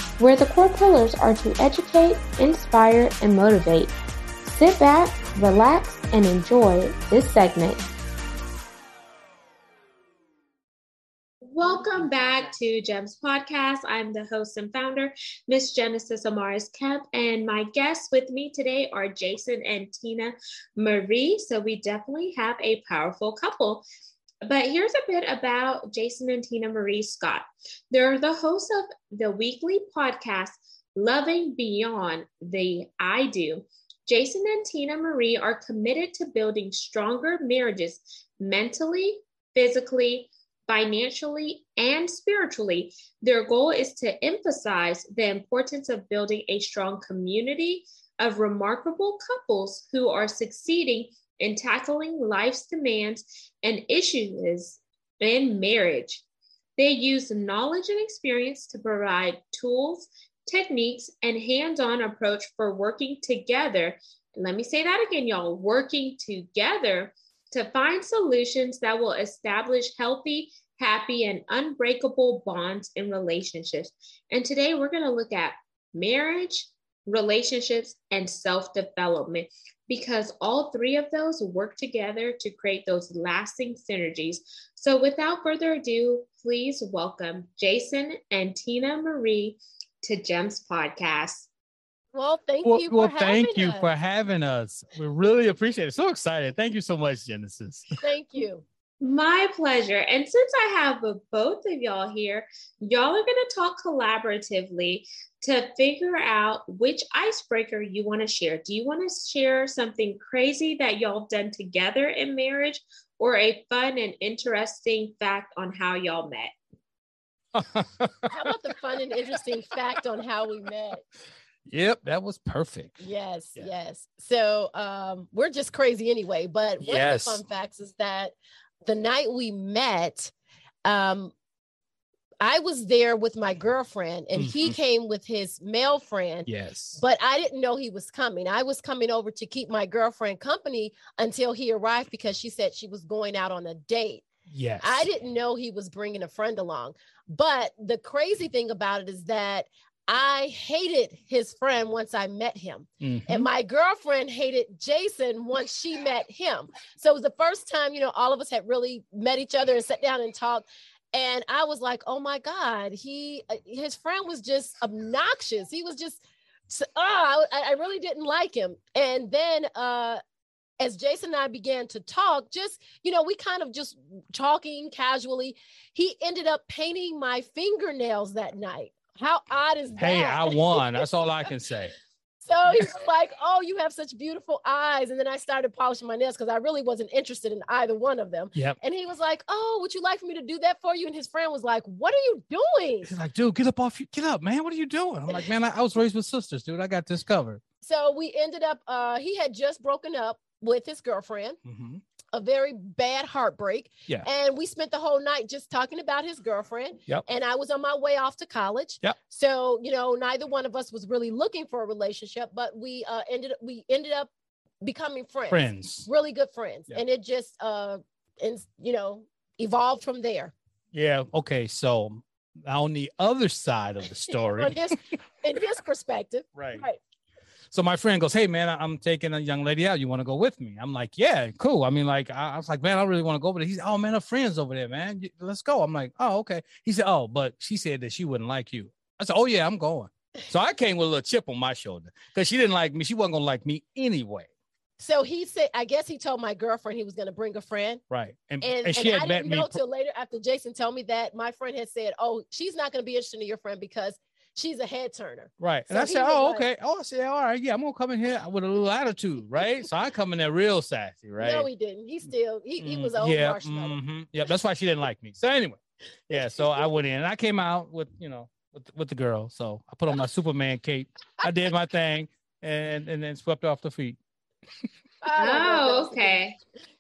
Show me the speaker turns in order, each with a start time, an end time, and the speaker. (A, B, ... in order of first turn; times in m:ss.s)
0:00.2-0:07.9 A
0:11.4-0:23.9 A
0:24.4-0:56.2 A
0:56.8-1:31.5 A
1:32.1-1:33.9 B
1:32.6-1:38.0 C
1:38.0-1:38.6 B
1:39.0-1:56.5 A
1:57.5-1:58.3 C
1:58.3-2:01.0 B
2:01.7-2:03.0 C
2:03.0-2:08.4 B
2:06.8-2:07.4 C
2:08.9-2:10.3 B
2:10.8-2:11.3 B
2:12.4-2:24.3 B
2:14.4-2:14.8 C
2:16.5-2:17.0 C
2:24.5-2:25.1 C
2:24.8-2:50.2 B
2:33.0-2:33.5 C
2:50.8-3:01.1 B
3:00.0-3:01.9 C
3:02.4-3:13.1 B
3:13.0-3:17.6 C
3:17.8-3:21.6 B
3:21.6-3:22.0 C
3:22.3-3:34.3 B
3:34.8-3:40.5 B
3:35.5-3:36.1 C
3:40.9-3:45.0 C
3:44.6-3:47.0 B
3:46.6-3:46.8 C
3:47.7-4:04.5 C
4:05.0-4:08.0 B
4:08.1-4:09.8 C
4:08.6-4:16.7 B
4:15.6-4:21.7 C
4:21.4-4:24.0 B
4:22.8-4:34.2 C
4:26.3-4:26.9 B
4:35.2-4:36.4 B
4:35.4-4:36.6 A